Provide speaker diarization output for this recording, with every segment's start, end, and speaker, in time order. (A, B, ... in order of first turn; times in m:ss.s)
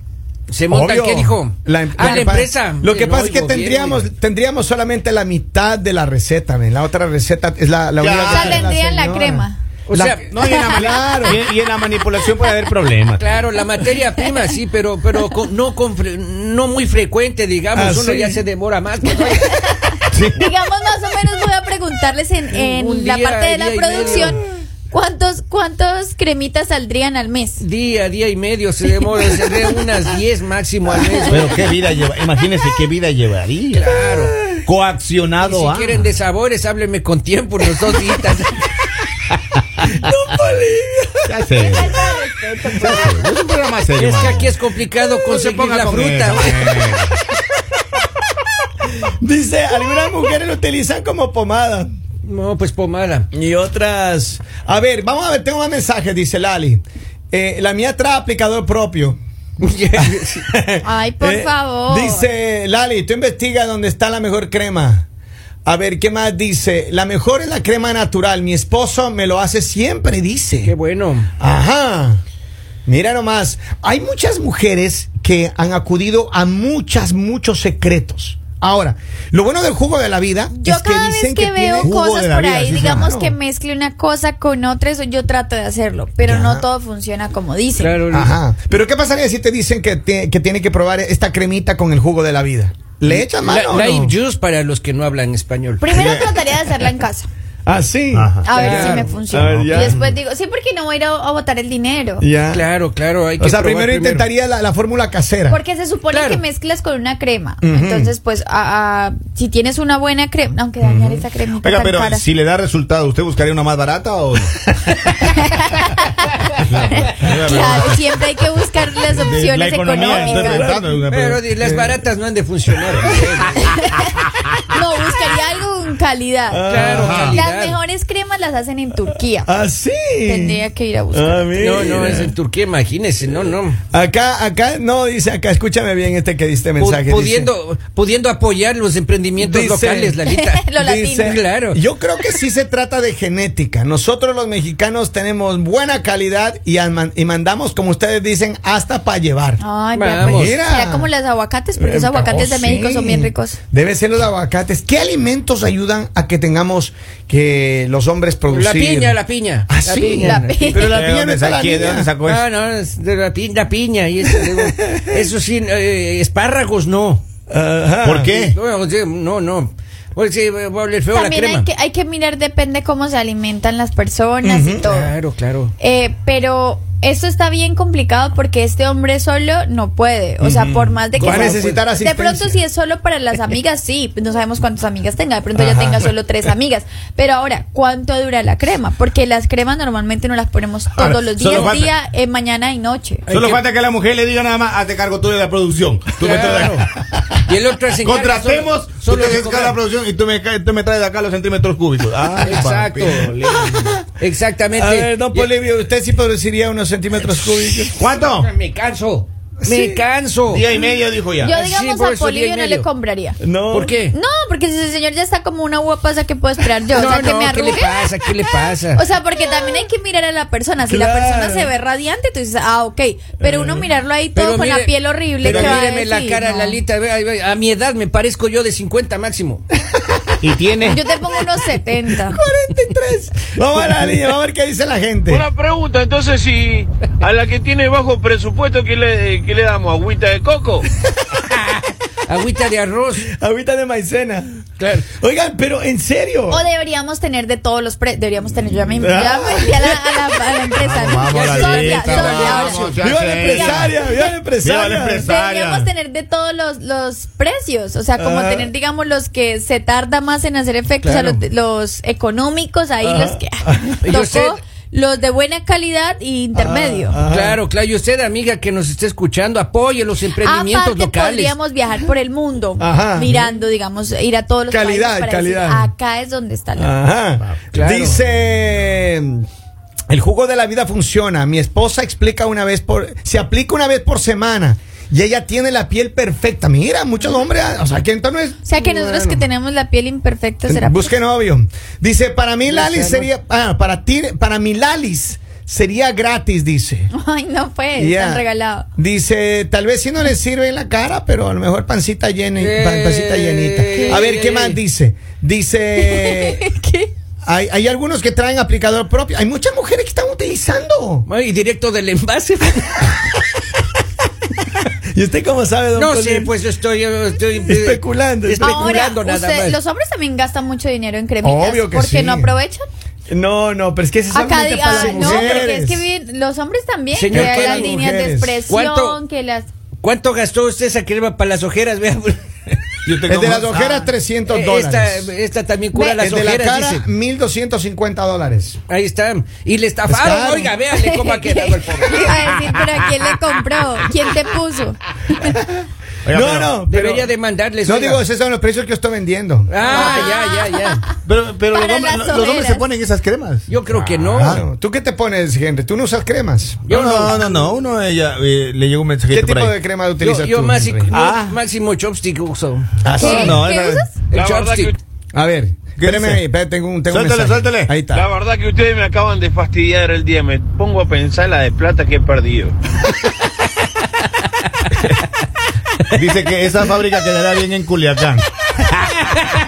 0:00.5-0:04.1 A
0:00.7-0:11.4 B
0:08.0-0:08.7 C
0:08.2-0:09.6 D
0:09.9-0:10.3 A
0:10.2-0:13.4 C
0:10.4-0:11.2 D
0:13.2-0:19.5 A
0:17.7-0:18.4 B
0:19.2-0:27.6 D
0:20.1-0:20.4 C
0:22.5-0:24.4 A
0:27.6-0:31.6 A
0:31.3-0:33.9 C
0:33.7-0:34.4 A
0:34.6-0:36.0 C
0:35.4-0:38.7 A
0:39.9-0:41.4 B
0:41.3-0:42.0 C
0:41.6-0:43.3 D
0:42.8-0:44.5 C
0:44.0-0:47.0 A
0:45.2-0:47.2 C
0:49.0-0:51.9 B
0:52.2-0:53.3 A
0:53.3-0:59.2 B
0:59.6-1:00.5 A
1:00.5-1:05.1 B
1:00.8-1:02.2 D
1:05.6-1:10.7 B
1:10.6-1:11.3 A
1:11.4-1:12.2 B
1:12.9-1:23.4 B
1:20.5-1:28.0 D
1:21.8-1:23.1 C
1:26.2-1:26.6 B
1:27.8-1:28.4 A
1:28.1-1:34.2 B
1:33.1-1:36.0 A
1:35.8-1:37.3 D
1:35.9-1:36.3 C
1:37.7-1:40.0 B
1:38.1-1:38.5 C
1:38.4-1:42.3 D
1:38.5-1:39.1 A
1:39.3-1:40.1 C
1:42.2-1:42.7 B
1:42.5-1:44.3 A
1:43.4-1:45.6 B
1:45.5-1:52.2 D
1:46.1-1:46.4 A
1:47.6-1:48.1 B
1:50.9-1:51.2 B
1:51.6-1:54.6 C
1:55.2-1:56.1 D
1:56.6-1:58.0 C
1:56.9-2:00.7 D
1:59.1-2:01.4 C
2:00.1-2:00.9 B
2:01.1-2:03.6 A
2:01.6-2:02.0 B
2:03.6-2:09.5 D
2:06.5-2:07.4 B
2:06.7-2:07.8 A
2:06.9-2:07.4 C
2:09.5-2:12.3 B
2:10.2-2:11.6 D
2:11.6-2:13.8 A
2:13.9-2:17.5 B
2:16.8-2:20.7 A
2:19.4-2:20.2 B
2:20.3-2:21.4 D
2:20.8-2:29.6 B
2:21.2-2:21.8 A
2:29.6-2:33.6 D
2:29.9-2:30.6 A
2:30.2-2:31.1 B
2:31.8-2:39.2 B
2:38.5-2:40.8 A
2:39.7-2:42.1 B
2:40.2-2:40.9 D
2:40.7-2:42.4 C
2:42.2-2:47.2 A
2:47.5-2:48.3 B
2:48.0-2:48.6 C
2:48.3-2:51.7 A
2:51.1-2:55.1 D
2:54.4-2:54.9 B
2:54.8-2:55.7 A
2:55.8-3:13.3 D
3:00.4-3:02.6 B
3:01.2-3:01.8 A
3:05.6-3:06.1 B
3:11.0-3:11.9 C
3:13.3-3:13.6 A
3:13.3-3:17.4 C
3:16.2-3:16.9 A
3:17.5-3:19.8 A
3:18.0-3:24.0 C
3:22.4-3:23.4 A
3:23.3-3:24.0 B
3:24.2-3:25.5 A
3:24.7-3:28.0 B
3:27.9-3:28.5 C
3:28.2-3:30.7 A
3:29.6-3:30.0 B
3:30.5-3:31.6 C
3:31.4-3:33.4 D
3:31.5-3:32.9 A
3:33.4-3:34.0 B
3:33.7-3:34.2 A
3:34.1-3:38.1 D
3:36.9-3:39.0 A
3:38.9-3:46.8 D
3:40.8-3:41.7 B
3:43.4-3:43.9 B
3:44.4-3:49.7 A
3:45.4-3:45.8 C
3:50.4-3:51.0 C
3:50.8-3:52.4 D
3:52.1-3:55.5 B
3:53.5-3:54.3 A
3:55.3-4:00.9 E
4:01.7-4:03.3 A
4:03.3-4:04.6 B
4:04.8-4:05.1 A
4:05.2-4:06.6 B
4:06.5-4:14.2 D
4:09.0-4:10.0 B
4:10.8-4:14.0 C
4:11.3-4:12.9 A
4:13.0-4:15.3 B
4:14.6-4:15.9 C
4:15.2-4:27.2 D
4:18.2-4:18.7 B
4:21.0-4:21.4 A
4:23.0-4:24.0 B
4:24.0-4:24.6 A
4:26.6-4:27.6 B
4:27.3-4:31.6 A
4:30.4-4:37.0 D
4:32.8-4:33.5 B
4:34.7-4:35.9 B
4:36.8-4:39.5 B
4:37.7-4:38.2 A
4:40.1-4:48.6 B
4:48.6-4:51.1 D
4:48.8-4:49.4 A
4:50.7-4:57.1 B
4:52.7-4:53.3 A
4:57.1-4:58.9 D
4:58.0-5:06.6 B
5:02.6-5:04.8 A
5:03.9-5:04.2 D
5:06.0-5:07.1 D
5:07.4-5:11.3 B
5:11.3-5:13.3 A
5:15.1-5:16.5 B
5:16.0-5:19.8 A
5:17.7-5:19.1 B
5:18.6-5:22.9 D
5:21.4-5:22.6 B
5:23.3-5:26.1 B
5:24.3-5:29.7 D
5:24.9-5:25.7 A
5:27.1-5:28.0 A
5:27.3-5:28.6 B
5:28.7-5:29.2 A
5:30.0-5:32.4 A
5:33.0-5:34.1 C
5:33.3-5:35.3 B
5:34.5-5:37.1 A
5:36.0-5:38.8 B
5:38.9-5:42.7 A
5:40.1-5:40.8 B
5:40.9-5:45.6 D
5:46.2-5:46.7 C
5:46.3-5:47.3 B
5:46.8-5:48.2 A
5:47.8-5:50.3 B
5:49.7-5:51.1 A
5:49.8-5:52.9 D
5:49.9-5:50.3 C
5:51.2-5:54.6 C
5:53.7-5:54.6 A
5:54.4-5:56.8 B
5:56.9-5:59.8 C
5:56.9-5:57.6 A
5:59.3-6:01.4 B
6:00.2-6:03.5 A
6:01.1-6:01.5 C
6:03.0-6:03.6 B
6:03.2-6:04.2 D
6:03.2-6:04.2 C
6:04.3-6:05.0 A
6:04.3-6:05.0 E
6:05.3-6:08.3 B
6:06.0-6:06.4 C
6:07.1-6:08.0 C
6:08.1-6:12.8 E
6:16.1-6:19.4 C